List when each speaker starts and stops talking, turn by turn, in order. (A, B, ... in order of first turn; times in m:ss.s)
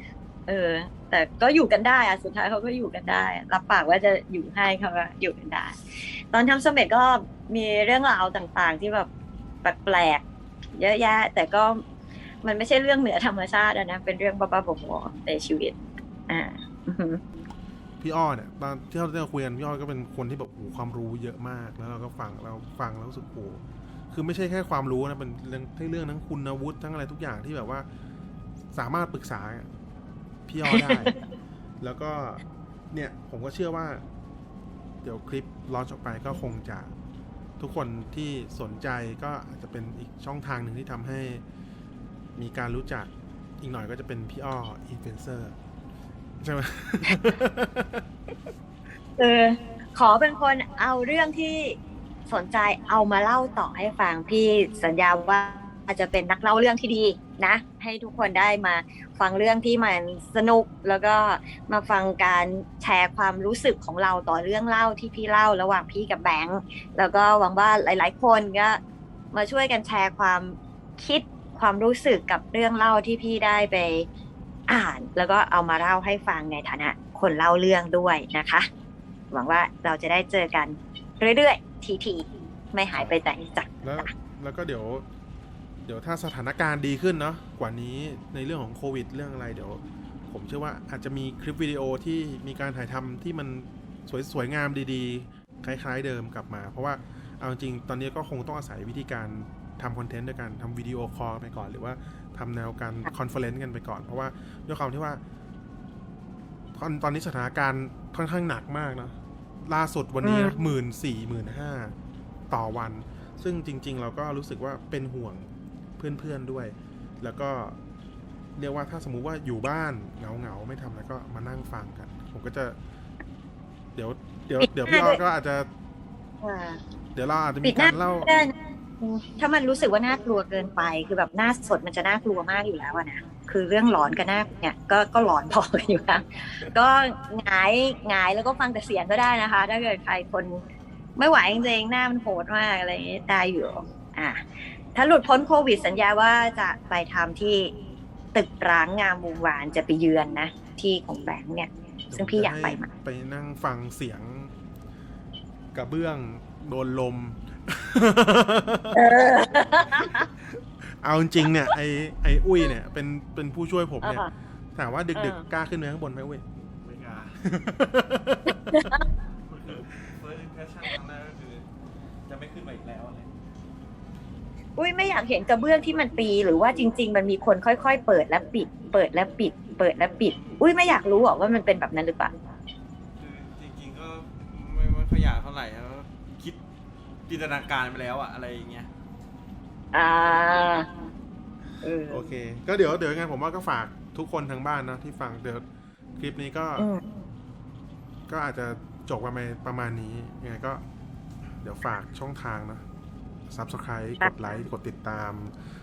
0:00.5-0:09.1 A
0:09.6-0:10.2 A
0:10.8-0:11.8 A
0:12.4-0:15.8 A
0:16.3-0:17.2 A
0:18.0-0:27.9 B
0:28.7-0:29.7 B
0:30.5-0:31.2 B
0:30.7-0:31.1 A
0:31.8-0:34.0 B
0:35.0-0:36.9 B
0:37.6-0:41.4 B
0:42.4-0:45.6 B
0:46.4-0:48.0 B
0:49.2-1:08.8 A
1:09.3-1:14.1 A
1:14.7-1:18.7 A
1:19.3-1:24.1 A
1:23.8-1:25.1 B
1:25.8-1:45.2 B
1:46.8-1:52.0 B
1:50.2-1:50.6 A
1:52.5-1:57.8 B
1:58.6-2:02.8 B
2:04.0-2:05.7 B
2:04.6-2:05.2 A
2:06.4-2:06.8 A
2:07.2-2:08.5 B
2:07.6-2:20.6 A
2:21.2-2:27.7 A
2:28.3-2:32.9 A
2:32.1-2:34.5 B
2:35.7-2:39.0 B
2:38.9-2:40.3 A
2:40.8-2:46.4 B
2:44.0-2:44.3 A
2:45.2-2:45.4 A
2:46.6-2:47.4 C
2:47.4-2:48.9 B
2:48.7-2:49.0 A
2:49.5-2:51.7 C
2:52.3-2:53.3 C
2:54.8-3:02.3 A
3:03.2-3:06.6 C
3:07.3-3:08.9 C
3:09.9-3:10.9 A
3:11.8-3:12.2 A
3:12.1-3:15.6 B
3:16.2-3:16.9 B
3:16.8-3:17.0 A
3:18.3-3:20.8 B
3:21.6-3:22.8 B
3:23.5-3:25.5 B
3:24.2-3:24.6 A